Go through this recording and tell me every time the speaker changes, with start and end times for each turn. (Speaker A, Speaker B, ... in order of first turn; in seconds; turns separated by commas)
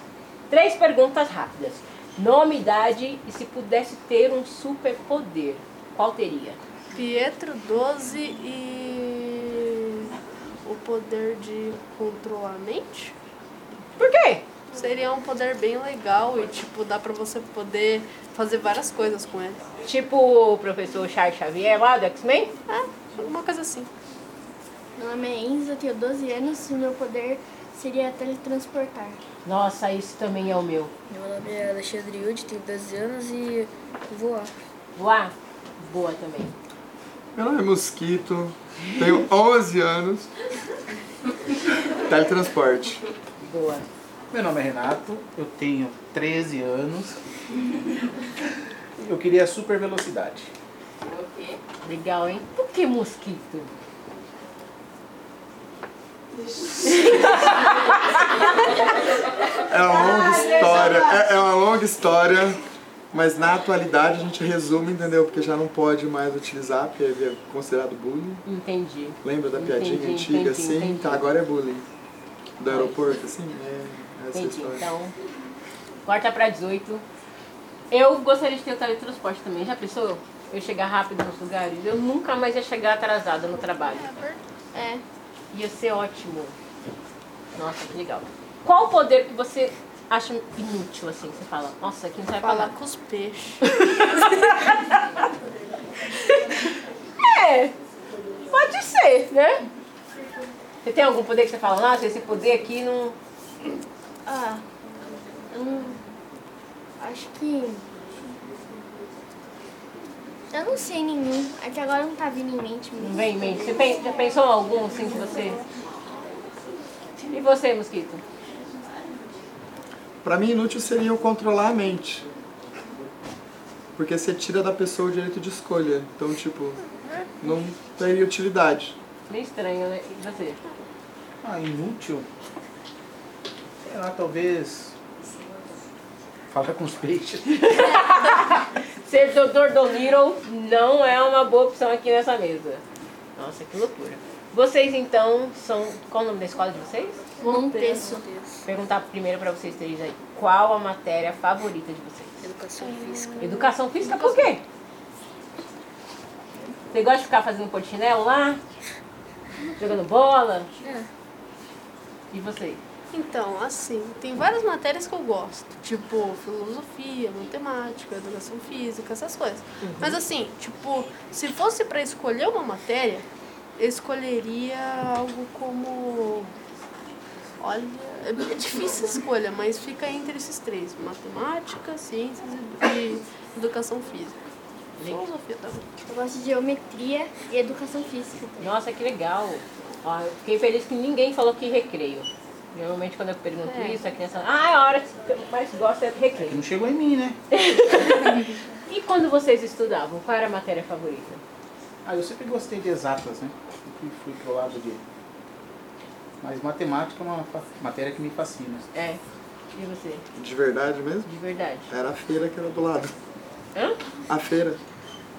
Speaker A: 0.5-6.6, Speaker B: 6.9-10.1, Speaker B: 10.6-13.1, Speaker A: 14.0-14.4, Speaker B: 14.7-19.6, Speaker A: 19.8-22.5, Speaker B: 22.7-23.9, Speaker C: 25.0-29.2, Speaker A: 29.4-30.9, Speaker D: 31.1-34.5, Speaker A: 35.0-36.5, Speaker E: 37.3-40.3, Speaker E: 41.9-43.0, Speaker A: 43.4-43.9, Speaker F: 44.3-47.2, Speaker F: 49.0-50.5, Speaker A: 51.8-53.7, Speaker A: 56.8-58.1, Speaker E: 59.7-62.6, Speaker A: 59.9-61.1, Speaker E: 63.1-68.4, Speaker A: 68.4-71.2, Speaker E: 69.2-71.8, Speaker E: 72.6-74.9, Speaker A: 72.7-73.0, Speaker A: 74.3-75.1, Speaker A: 76.0-77.0, Speaker A: 77.9-84.1, Speaker B: 83.5-84.5, Speaker C: 84.7-85.0, Speaker A: 85.5-86.5, Speaker A: 87.5-92.7, Speaker B: 92.4-94.2, Speaker A: 93.6-95.0, Speaker A: 96.3-96.6, Speaker A: 97.2-97.7, Speaker A: 98.4-99.6, Speaker A: 100.8-103.2, Speaker C: 104.2-104.6, Speaker C: 105.5-106.0, Speaker C: 107.0-107.9, Speaker C: 110.5-113.9, Speaker A: 113.0-115.6, Speaker A: 117.3-118.2, Speaker E: 120.2-122.3, Speaker E: 124.0-126.8, Speaker E: 127.4-128.9, Speaker A: 129.3-130.6, Speaker F: 131.4-132.3, Speaker F: 133.8-134.9, Speaker F: 136.5-137.7, Speaker A: 137.5-142.8, Speaker A: 143.4-147.2, Speaker C: 147.4-148.2, Speaker D: 147.4-148.6, Speaker A: 148.6-152.3, Speaker D: 152.4-153.7, Speaker B: 152.8-154.5, Speaker A: 153.4-154.6, Speaker A: 156.9-158.6, Speaker A: 159.8-160.7, Speaker A: 162.3-162.8, Speaker B: 163.1-173.2, Speaker A: 169.8-170.2, Speaker B: 173.8-176.5, Speaker B: 177.6-184.4, Speaker B: 185.0-185.9, Speaker C: 186.0-188.7, Speaker A: 188.6-196.6, Speaker B: 193.7-194.0, Speaker F: 196.3-197.4, Speaker A: 197.5-201.4, Speaker F: 202.0-205.0, Speaker F: 206.4-208.9, Speaker A: 208.9-209.2, Speaker A: 209.7-210.2, Speaker E: 210.3-211.3, Speaker A: 211.2-211.9, Speaker E: 211.9-213.1, Speaker E: 214.3-214.8